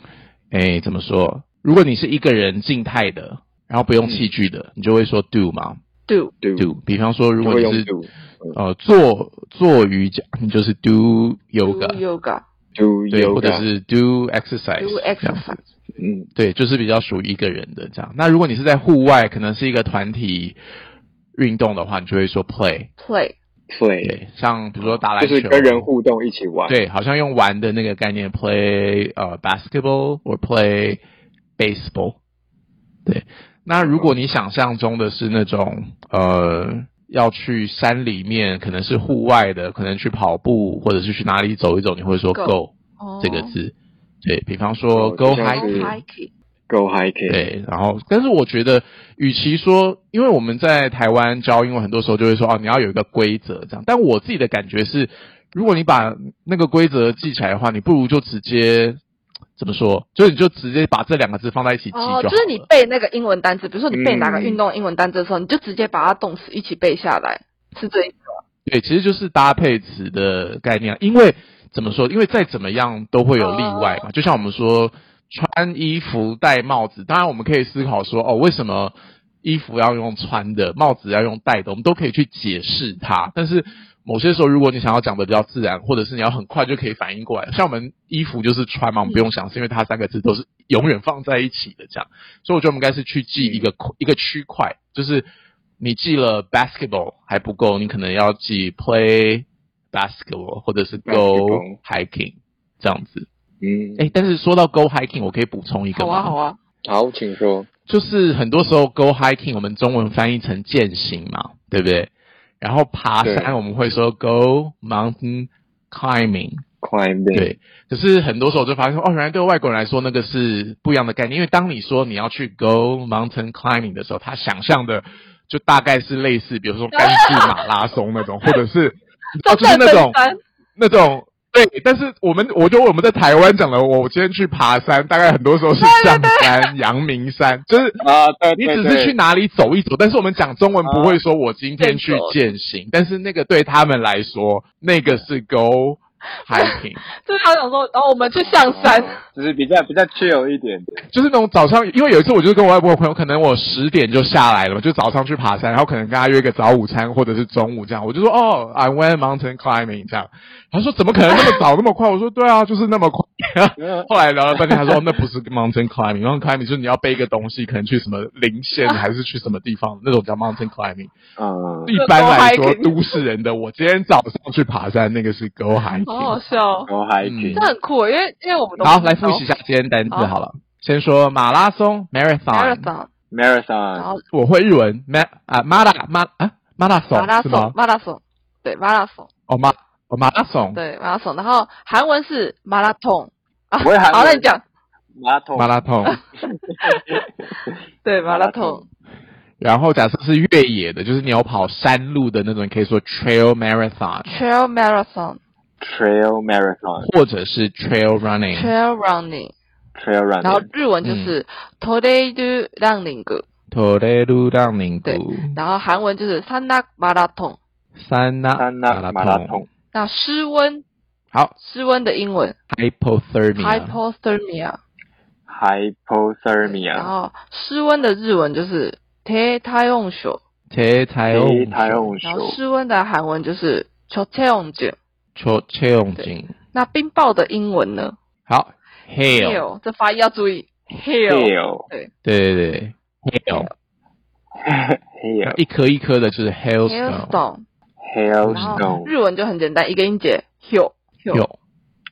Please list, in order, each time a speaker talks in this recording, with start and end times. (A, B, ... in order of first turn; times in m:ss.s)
0:00.5-0:05.8 A
0:04.0-0:04.3 B
0:06.1-0:06.3 C
0:06.4-0:06.7 B
0:06.6-0:07.9 A
0:07.4-0:08.6 B
0:08.5-0:12.0 A
0:11.6-0:12.4 C
0:12.8-0:13.6 B
0:13.1-0:15.5 A
0:14.8-0:15.6 C
0:16.0-0:16.3 B
0:16.4-0:20.6 A
0:21.3-0:22.9 A
0:23.0-0:23.4 C
0:23.7-0:24.2 B
0:24.0-0:25.9 A
0:24.8-0:26.8 B
0:26.7-0:31.0 A
0:31.6-0:32.2 A
0:33.0-0:46.0 A
0:33.8-0:34.1 B
0:42.3-0:43.6 C
0:44.9-0:45.9 B
0:45.4-0:46.3 C
0:46.7-0:47.4 B
0:47.3-0:59.0 A
0:59.6-1:02.7 A
1:01.9-1:08.3 C
1:03.9-1:04.6 B
1:08.6-1:35.2 A
1:13.4-1:14.1 C
1:33.4-1:33.7 B
1:35.8-1:43.3 A
1:41.0-1:41.8 B
1:43.6-1:44.1 B
1:44.0-1:46.4 A
1:45.9-1:46.6 C
1:46.8-1:47.7 B
1:47.9-1:52.1 A
1:52.6-1:56.6 A
1:53.2-1:53.6 B
1:56.8-1:57.5 B
1:57.3-2:10.2 A
2:06.9-2:07.5 C
2:09.4-2:10.4 C
2:10.8-2:18.0 A
2:15.8-2:16.7 C
2:18.0-2:19.1 B
2:18.6-2:27.0 A
2:20.8-2:21.2 B
2:21.8-2:22.3 C
2:26.5-2:29.2 C
2:28.4-2:31.0 B
2:31.1-2:51.2 A
2:43.8-2:45.0 B
2:51.4-2:51.9 B
2:51.8-2:56.4 A
2:51.9-2:53.2 C
2:56.0-2:56.9 C
2:56.9-2:57.6 B
2:57.2-2:57.7 A
2:57.5-2:59.5 C
2:58.8-3:02.9 A
3:02.5-3:03.1 C
3:03.3-3:04.1 B
3:04.0-3:04.2 C
3:04.3-3:07.7 A
3:07.1-3:09.3 C
3:09.5-3:10.8 A
3:10.7-3:14.6 C
3:13.8-3:14.5 B
3:15.2-3:15.7 B
3:15.6-3:16.2 A
3:16.5-3:17.8 B
3:16.8-3:17.3 C
3:18.0-3:18.8 C
3:18.3-3:18.8 B
3:19.6-3:24.4 A
3:24.2-3:25.4 C
3:25.8-3:27.1 B
3:27.0-3:28.7 A
3:28.5-3:29.5 C
3:30.0-3:30.7 B
3:30.4-3:33.4 C
3:31.0-3:31.3 A
3:33.7-3:35.5 A
3:35.0-3:37.6 C
3:38.0-3:39.6 A
3:38.6-3:39.7 B
3:39.9-3:40.8 C
3:41.6-3:42.6 C
3:42.7-3:44.0 A
3:43.6-3:44.8 C
3:45.5-3:47.1 B
3:46.6-3:50.4 C
3:50.7-3:52.1 A
3:51.3-3:52.6 B
3:52.2-3:55.0 C
3:55.4-3:56.5 A
3:56.2-3:58.1 C
3:58.5-3:59.6 A
3:59.3-4:02.1 C
4:01.3-4:01.9 B
4:02.2-4:03.7 A
4:04.6-4:05.6 B
4:05.4-4:07.4 A
4:06.8-4:07.6 C
4:08.0-4:09.1 B
4:08.4-4:09.0 A
4:08.6-4:11.4 C